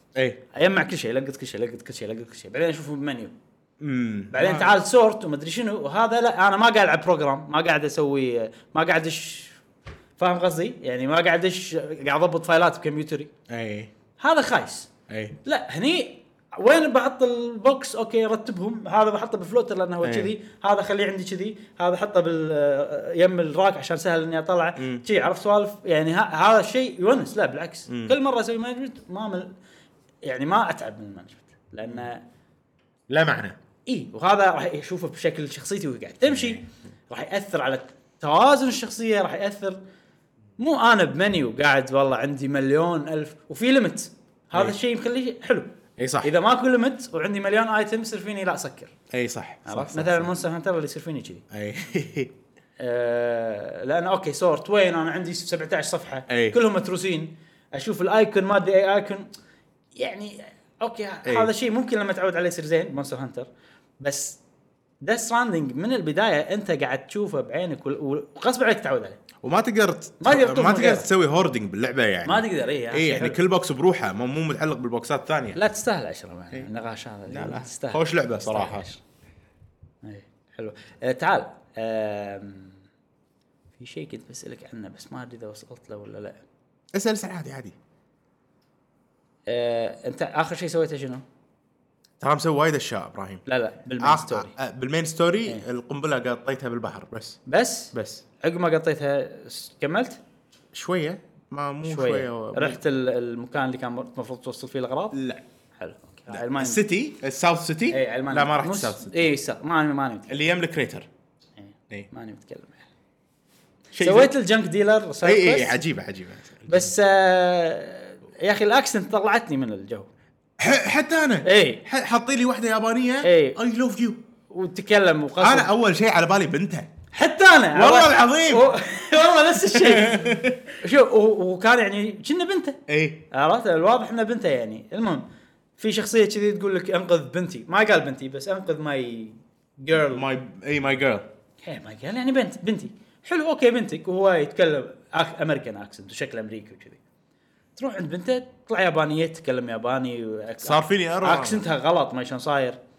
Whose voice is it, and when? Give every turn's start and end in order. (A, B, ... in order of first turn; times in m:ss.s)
0:00.1-0:00.4 A
0:00.5-0:03.3 B
0:03.8-0:04.7 A
0:04.3-0:09.6 B
0:10.2-0:13.3 B
0:13.5-0:13.9 A
0:14.2-0:14.9 B
0:15.1-0:15.4 A
0:15.4-0:29.5 B
0:20.0-0:20.3 A
0:24.8-0:25.0 A
0:27.9-0:28.2 A
0:30.2-0:32.2 B
0:33.1-0:33.6 A
0:33.9-0:39.8 B
0:36.3-0:36.6 A
0:40.6-0:48.9 B
0:46.0-0:46.3 A
0:49.1-0:50.3 A
0:49.6-0:51.4 B
0:51.5-0:52.3 A
0:52.8-0:59.3 B
0:56.3-0:56.6 A
1:00.0-1:03.5 B
1:01.2-1:01.5 A
1:04.0-1:04.4 B
1:05.0-1:09.2 B
1:09.4-1:15.6 A
1:10.2-1:11.1 B
1:12.2-1:13.4 B
1:15.6-1:19.0 B
1:17.3-1:18.8 A
1:20.0-1:22.8 B
1:23.8-1:26.4 B
1:26.9-1:27.7 A
1:29.5-1:31.2 B
1:32.2-1:33.4 A
1:33.4-1:34.5 B
1:34.0-1:37.4 A
1:37.4-1:40.2 B
1:37.9-1:38.2 A
1:40.7-1:42.8 A
1:41.9-1:45.2 B
1:45.1-1:45.4 A
1:45.8-1:46.8 B
1:46.3-1:49.3 A
1:47.9-1:50.4 B
1:50.3-1:51.1 A
1:51.6-1:52.8 B
1:53.9-1:54.3 A
1:54.0-1:55.8 B
1:55.2-1:56.9 A
1:56.7-2:00.1 B
2:00.6-2:04.2 A
2:01.4-2:01.8 B
2:03.2-2:03.6 B
2:04.5-2:05.7 B
2:05.4-2:06.9 A
2:07.1-2:12.8 B
2:07.7-2:08.7 A
2:09.7-2:10.7 A
2:12.9-2:13.2 A
2:13.3-2:15.2 B
2:15.8-2:20.2 B
2:19.9-2:21.3 A
2:21.6-2:27.0 B
2:27.8-2:32.8 B
2:30.6-2:31.6 A